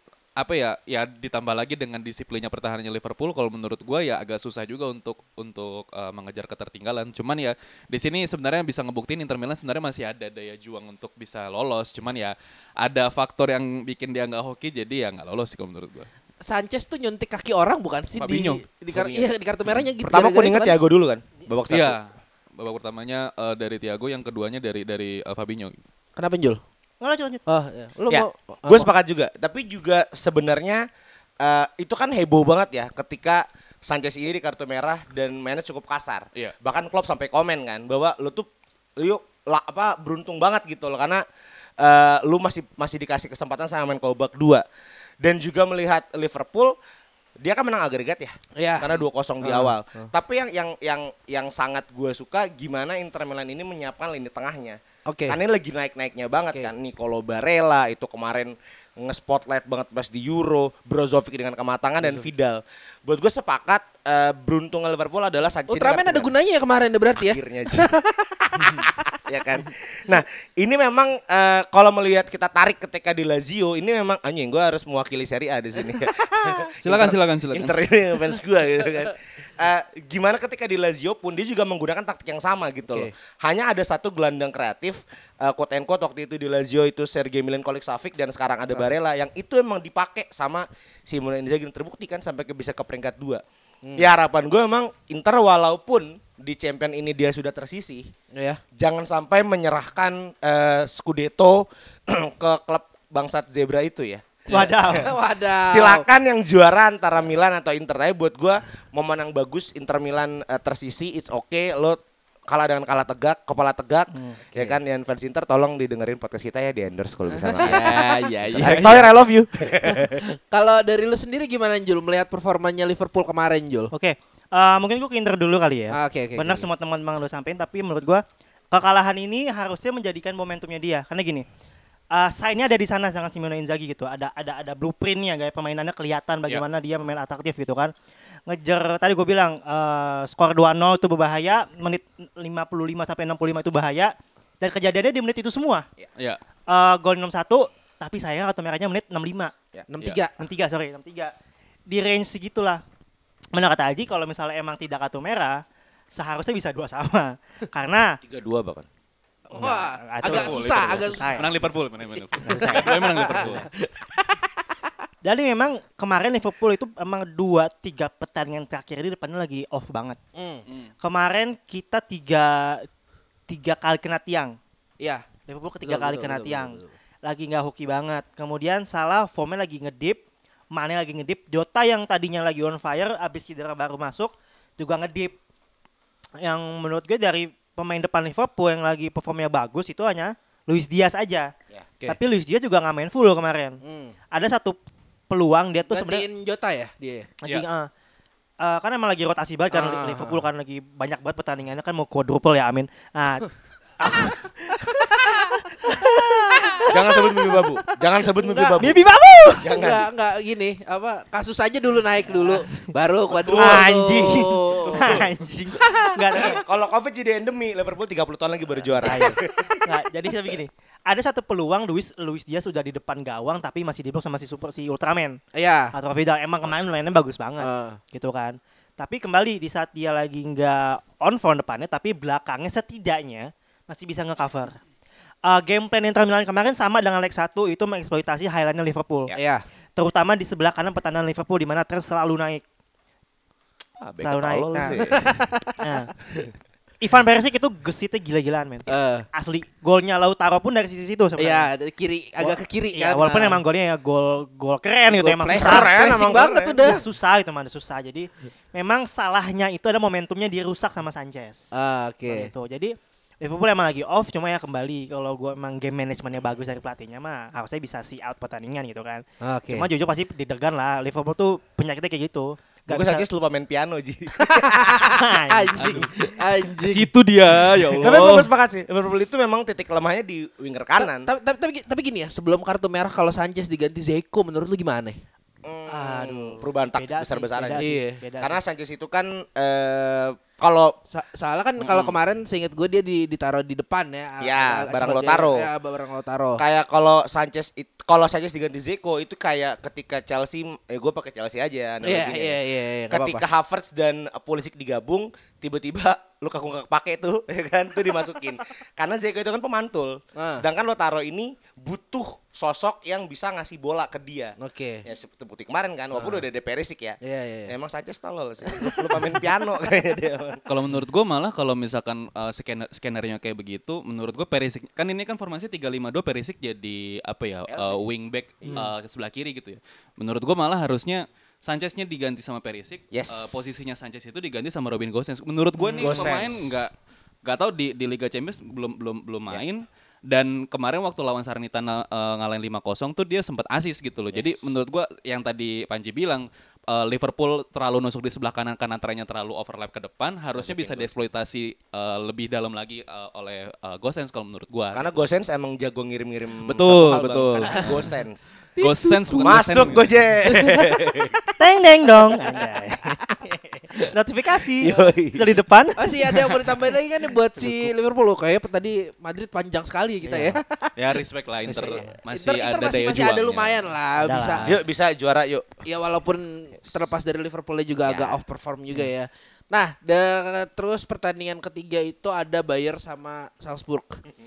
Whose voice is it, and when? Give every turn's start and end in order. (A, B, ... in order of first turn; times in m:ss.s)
0:00.4-0:16.1 A
0:16.4-0:20.8 B
0:18.2-0:18.6 A
0:18.9-0:19.3 C
0:20.0-0:22.0 C
0:21.7-0:25.8 A
0:26.2-0:26.6 B
0:27.0-0:27.4 D
0:27.5-0:28.9 B
0:28.1-0:30.9 C
0:31.4-0:41.2 C
0:41.8-0:44.6 C
0:45.2-0:46.8 C
0:47.4-1:06.3 C
0:48.6-0:50.1 B
0:55.1-0:55.4 B
1:02.0-1:02.3 B
1:05.7-1:08.9 B
1:07.2-1:07.9 C
1:08.5-1:33.4 C
1:15.8-1:16.7 B
1:16.8-1:17.7 A
1:33.8-1:34.1 B
1:34.0-1:38.1 C
1:38.3-1:38.6 B
1:38.8-1:45.1 C
1:44.5-1:45.1 D
1:44.5-1:46.1 B
1:45.7-2:00.2 C
1:54.5-1:54.8 B
1:57.3-1:58.0 B
1:57.6-1:59.1 A
1:59.8-2:03.9 B
2:03.9-2:11.4 D
2:05.9-2:06.7 B
2:12.1-2:17.9 D
2:18.5-2:25.9 D
2:26.7-2:29.5 D
2:29.9-2:30.3 B
2:30.4-2:31.3 D
2:31.9-2:32.8 D
2:33.5-2:35.6 D
2:36.1-2:38.2 D
2:38.2-2:38.9 C
2:39.5-2:41.5 B
2:39.6-2:41.5 D
2:40.2-2:43.7 A
2:42.2-2:44.6 B
2:42.4-2:43.7 D
2:45.2-2:50.2 D
2:50.4-2:50.6 B
2:51.0-2:52.8 D
2:53.5-2:54.5 D
2:55.5-3:00.2 D
2:55.8-2:56.9 B
3:00.7-3:05.4 D
3:06.4-3:11.5 D
3:12.1-3:13.8 D
3:13.8-3:14.1 B
3:14.3-3:14.8 D
3:15.3-3:16.3 D
3:15.9-3:17.3 B
3:17.4-3:17.9 D
3:18.6-3:23.5 D
3:19.7-3:20.4 B
3:24.0-3:26.9 D
3:24.8-3:25.4 B
3:26.0-3:27.6 B
3:26.9-3:29.0 C
3:28.2-3:29.0 B
3:28.8-3:29.7 D
3:29.6-3:30.0 C
3:29.7-3:35.3 B
3:33.4-3:39.9 C
3:33.5-3:36.6 D
3:39.0-3:45.4 D
3:45.5-3:45.9 B
3:45.9-3:54.8 D
3:47.6-3:48.0 B
3:55.4-3:59.3 D
3:59.3-3:59.6 B
4:00.0-4:02.6 D
4:04.0-4:05.4 C
4:04.2-4:05.0 D
4:05.0-4:05.8 B
4:05.8-4:06.1 D
4:07.0-4:11.7 D
4:08.9-4:09.3 B
4:11.4-4:13.6 B
4:12.4-4:21.7 D
4:15.1-4:17.0 B
4:15.5-4:16.9 C
4:21.7-4:22.5 B
4:22.3-4:33.3 D
4:29.4-4:29.9 B
4:32.9-4:35.1 C
4:34.4-4:37.1 B
4:35.1-4:35.8 D
4:35.8-4:36.1 A
4:36.8-4:38.5 A
4:38.0-4:41.3 C
4:41.0-4:45.2 B
4:45.6-4:47.9 C
4:45.9-4:48.6 D
4:47.8-4:48.2 B
4:48.4-4:51.0 C
4:51.1-4:56.6 B
4:51.8-4:52.1 C
4:54.4-4:55.7 C
4:56.6-5:02.6 C
5:02.0-5:03.4 B
5:03.1-5:20.6 C
5:10.4-5:10.6 B
5:14.6-5:15.0 B
5:16.1-5:16.4 B
5:17.2-5:17.7 B
5:18.7-5:19.4 B
5:20.7-5:36.9 A
5:27.7-5:28.0 C
5:33.1-5:33.6 C
5:35.8-5:36.3 D
5:36.0-5:36.7 C
5:37.4-5:55.2 A
5:50.6-5:51.1 C
5:54.9-5:58.5 C
5:56.6-5:58.0 A
5:57.7-5:58.0 B
5:58.8-5:59.6 B
5:58.8-6:00.2 A
5:59.3-6:01.3 C
6:00.5-6:01.3 B
6:01.6-6:06.0 D
6:04.8-6:05.5 C
6:06.0-6:10.9 B
6:10.2-6:10.6 D
6:11.0-6:13.9 A
6:11.7-6:12.1 D
6:12.3-6:14.8 B
6:14.2-6:14.7 D
6:14.6-6:15.7 C
6:15.9-6:24.2 B
6:18.1-6:18.4 C